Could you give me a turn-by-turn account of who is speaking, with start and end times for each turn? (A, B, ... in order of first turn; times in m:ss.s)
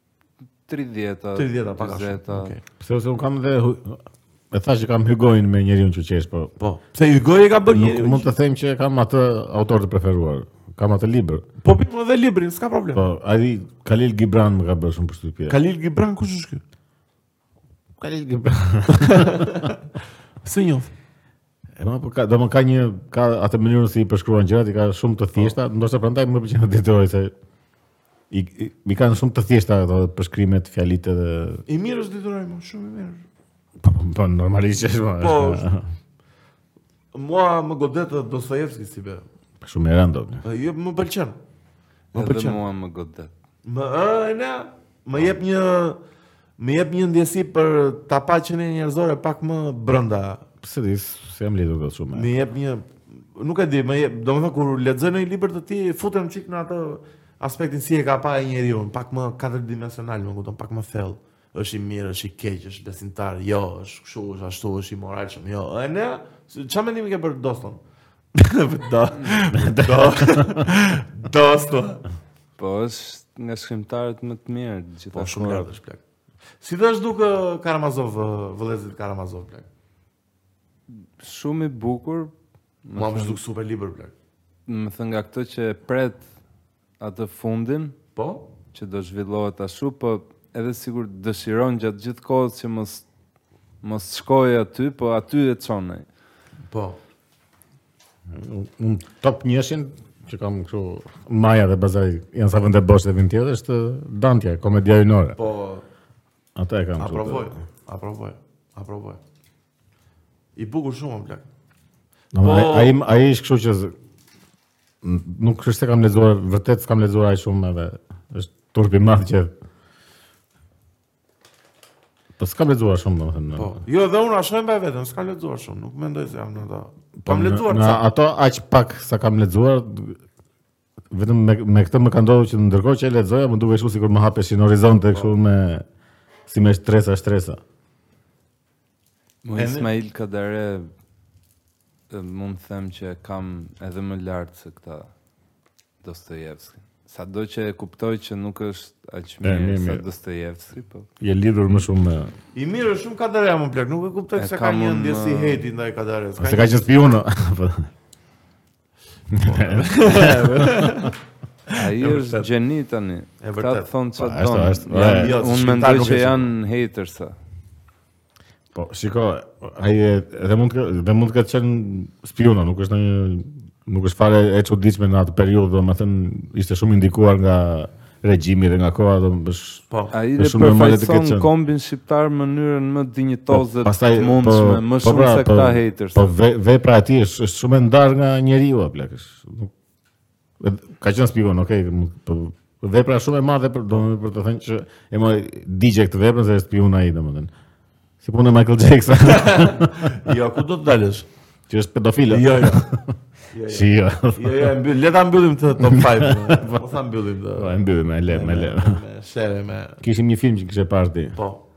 0:00.7-0:02.5 A
0:01.3-0:02.6 B
0:02.8-0:06.5 C
0:06.6-0:08.3 B
0:07.7-0:11.4 C
0:11.6-0:13.0 B
0:12.9-0:15.6 C
0:15.5-0:16.6 B
0:18.0-0:19.7 C
0:18.9-0:19.8 B
0:20.4-0:20.9 B
0:21.8-0:27.3 C
0:28.3-0:31.6 C
0:31.7-0:33.2 B
0:33.8-0:35.8 C
0:35.2-0:35.6 B
0:37.1-0:39.2 B
0:39.6-0:40.4 C
0:40.4-0:41.4 B
0:42.1-0:42.6 B
0:42.1-0:43.3 A
0:43.6-0:46.0 B
0:46.6-0:50.4 B
0:50.6-0:52.3 C
0:52.1-1:07.8 B
1:08.3-1:12.0 B
1:09.5-1:10.7 C
1:12.6-1:15.7 A
1:15.1-1:16.0 B
1:16.6-1:19.6 B
1:20.9-1:22.3 A
1:22.8-1:23.4 A
1:22.9-1:24.1 B
1:24.7-1:26.2 A
1:27.0-1:28.0 A
1:28.2-1:28.4 B
1:28.7-1:33.0 A
1:33.8-1:36.0 A
1:36.7-1:37.0 B
1:38.3-1:45.4 C
1:45.4-1:45.8 B
1:46.6-1:47.5 C
1:47.0-1:49.2 B
1:50.6-1:51.5 B
1:52.3-1:53.9 C
1:52.4-1:53.0 B
1:55.0-1:59.5 C
2:02.4-2:03.8 C
2:03.5-2:08.0 B
2:07.2-2:10.2 C
2:11.1-2:15.8 C
2:16.5-2:17.6 C
2:19.4-2:20.9 A
2:19.5-2:19.9 B
2:22.1-2:25.1 A
2:26.0-2:31.1 A
2:29.4-2:30.0 C
2:31.2-2:32.3 C
2:32.5-2:36.9 B
2:34.4-2:35.6 A
2:36.4-2:37.9 C
2:39.3-2:41.1 C
2:39.4-2:41.1 B
2:41.7-2:42.5 B
2:41.7-2:47.3 A
2:43.4-2:43.9 B
2:44.2-2:45.4 C
2:44.9-2:46.5 B
2:48.7-2:59.8 C
3:00.1-3:06.3 A
3:00.4-3:01.5 C
3:03.5-3:09.7 C
3:10.6-3:17.5 C
3:18.2-3:20.2 C
3:19.2-3:21.3 B
3:21.7-3:23.1 C
3:22.3-3:22.9 B
3:23.5-3:30.0 B
3:23.7-3:24.7 C
3:25.8-3:26.9 C
3:27.5-3:29.0 C
3:30.0-3:31.4 C
3:31.3-3:31.6 B